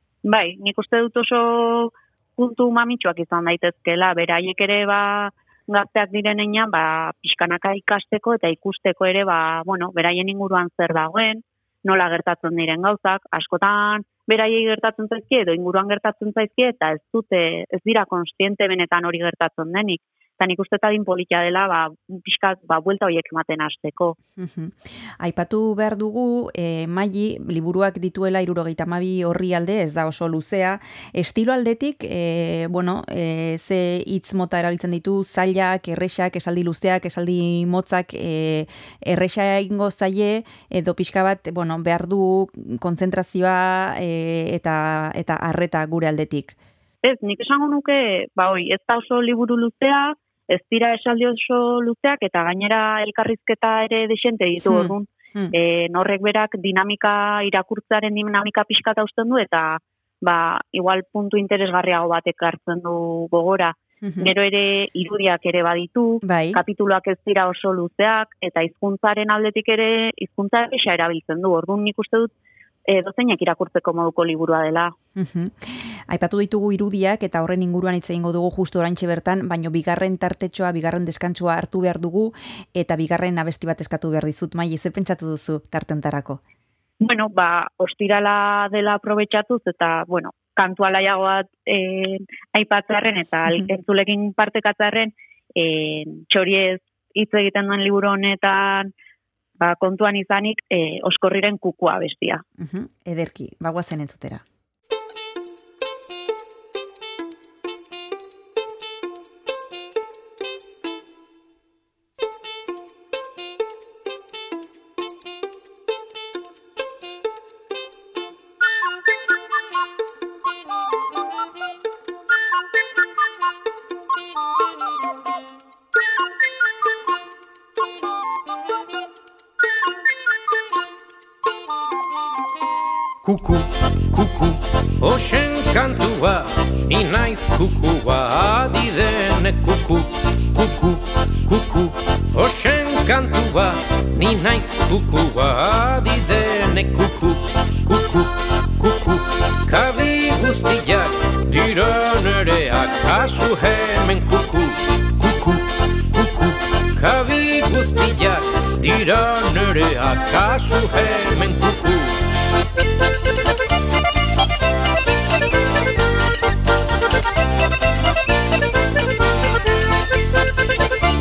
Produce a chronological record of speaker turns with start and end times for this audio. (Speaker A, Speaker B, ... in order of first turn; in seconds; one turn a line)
Speaker A: 0.2-24.2
Speaker B: 24.4-46.6
Speaker A: 47.0-72.3
Speaker B: 54.7-55.5
Speaker B: 64.0-64.3
Speaker B: 66.2-66.6
Speaker A: 72.9-74.9
Speaker B: 75.2-86.4
Speaker A: 87.0-98.9
Speaker A: 99.6-102.4
Speaker B: 102.6-104.4
Speaker C: 133.2-162.2